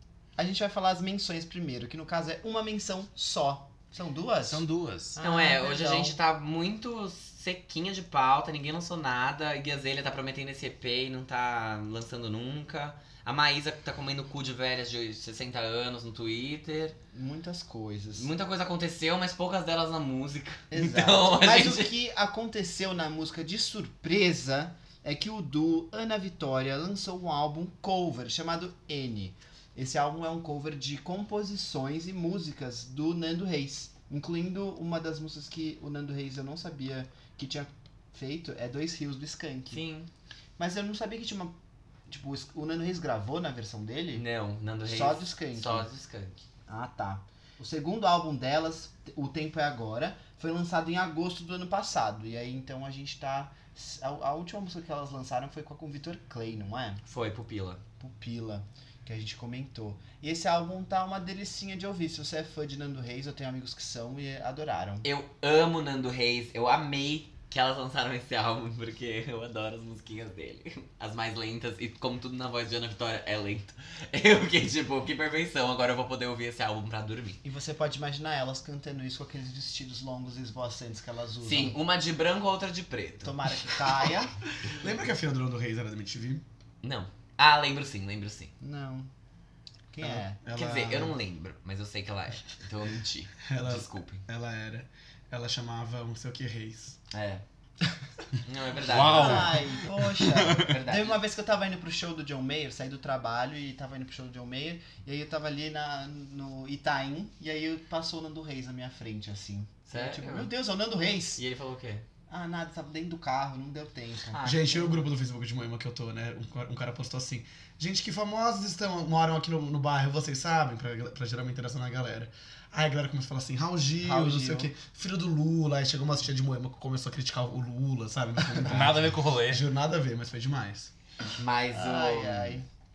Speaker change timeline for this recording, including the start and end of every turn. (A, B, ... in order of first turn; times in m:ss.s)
0:00.4-0:04.6 A
0:04.4-0:05.2 B
0:05.1-0:06.2 A
0:05.2-0:16.9 C
0:17.1-0:18.3 A
0:18.2-0:21.9 C
0:20.7-0:39.8 A
0:39.7-0:40.1 C
0:40.6-0:41.6 A
0:42.1-0:44.2 A
0:44.1-0:46.4 C
0:44.8-0:45.9 A
0:46.7-0:57.0 A
0:57.0-0:57.8 C
0:58.0-1:05.0 A
1:05.0-1:17.4 C
1:17.4-1:21.8 A
1:21.4-1:23.3 C
1:23.2-1:24.3 A
1:24.7-1:26.4 D
1:26.8-1:28.5 C
1:28.6-1:29.1 A
1:29.9-1:30.4 A
1:30.0-1:31.1 D
1:30.5-1:34.2 C
1:33.4-1:37.0 D
1:37.1-1:37.4 C
1:38.4-1:39.5 C
1:38.8-1:40.7 B
1:39.0-1:51.4 A
1:40.6-1:41.2 C
1:49.9-1:50.5 C
1:51.4-1:52.0 C
1:52.3-1:54.5 A
1:54.3-1:55.0 C
1:54.4-2:10.9 D
2:04.0-2:04.7 A
2:08.6-2:09.6 B
2:11.4-2:12.6 C
2:11.7-2:12.6 A